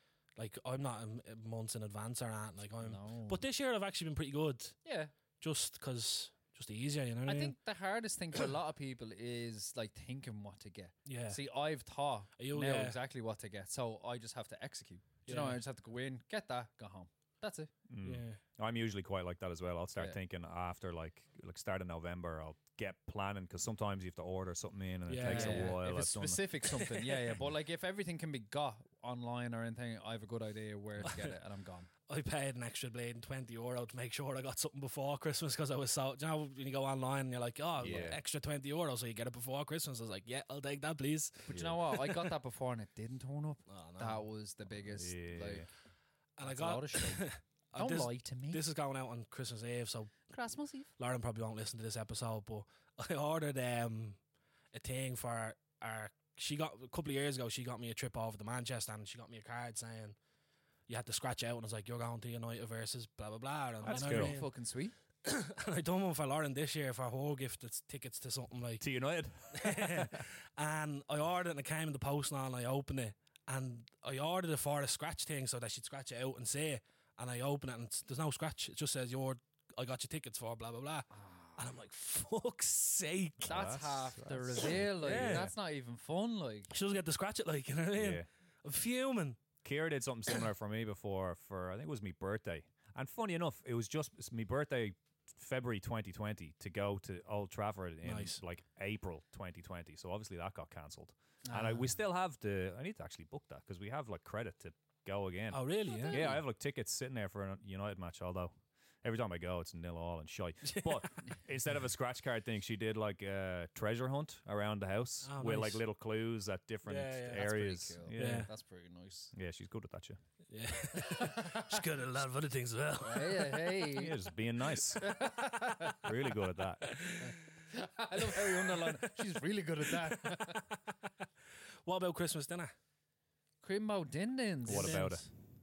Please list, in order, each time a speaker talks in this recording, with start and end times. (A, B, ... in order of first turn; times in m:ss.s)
0:00.4-0:04.8 A
0:02.8-0:03.4 B
0:04.8-0:05.1 B
0:05.4-0:07.6 A
0:07.3-0:17.7 B
0:11.1-0:11.4 A
0:12.4-0:13.0 A
0:15.3-0:15.6 A
0:17.9-0:26.4 C
0:18.0-0:18.4 A
0:25.1-0:25.8 A
0:25.2-0:31.9 B
0:26.7-0:27.4 A
0:31.0-0:31.4 A
0:32.1-0:42.3 A
0:37.8-0:38.2 C
0:37.8-0:38.1 B
0:41.5-0:45.7 B
0:41.5-0:41.8 C
0:43.7-0:44.2 A
0:44.8-0:45.7 C
0:46.4-0:50.1 A
0:46.4-0:48.6 B
0:50.3-0:50.9 B
0:51.0-0:54.2 A
0:54.7-1:00.2 A
1:00.9-1:04.5 A
1:03.8-1:04.4 C
1:03.9-1:04.9 B
1:05.2-1:08.8 A
1:08.8-1:10.2 C
1:09.5-1:23.6 A
1:21.1-1:21.7 B
1:23.4-1:25.5 C
1:23.5-1:26.7 B
1:24.7-1:25.5 A
1:26.7-1:29.4 A
1:28.0-1:28.3 C
1:29.6-1:58.5 C
1:38.0-1:38.4 A
1:41.4-1:42.0 B
1:45.5-1:46.4 A
1:45.9-1:46.4 B
1:50.6-1:51.2 A
1:55.2-1:55.8 A
1:56.9-1:57.4 A
1:57.3-1:59.3 B
1:58.2-1:58.5 A
1:59.3-2:00.2 C
2:00.5-2:03.8 A
2:01.0-2:01.8 B
2:03.0-2:04.2 B
2:03.9-2:05.1 C
2:04.8-2:06.1 B
2:06.0-2:07.0 C
2:06.8-2:07.4 A
2:07.2-2:10.7 B
2:08.2-2:09.1 A
2:09.9-2:10.8 A
2:11.9-2:12.7 A
2:13.6-2:15.1 B
2:14.7-2:15.3 C
2:14.7-2:15.3 A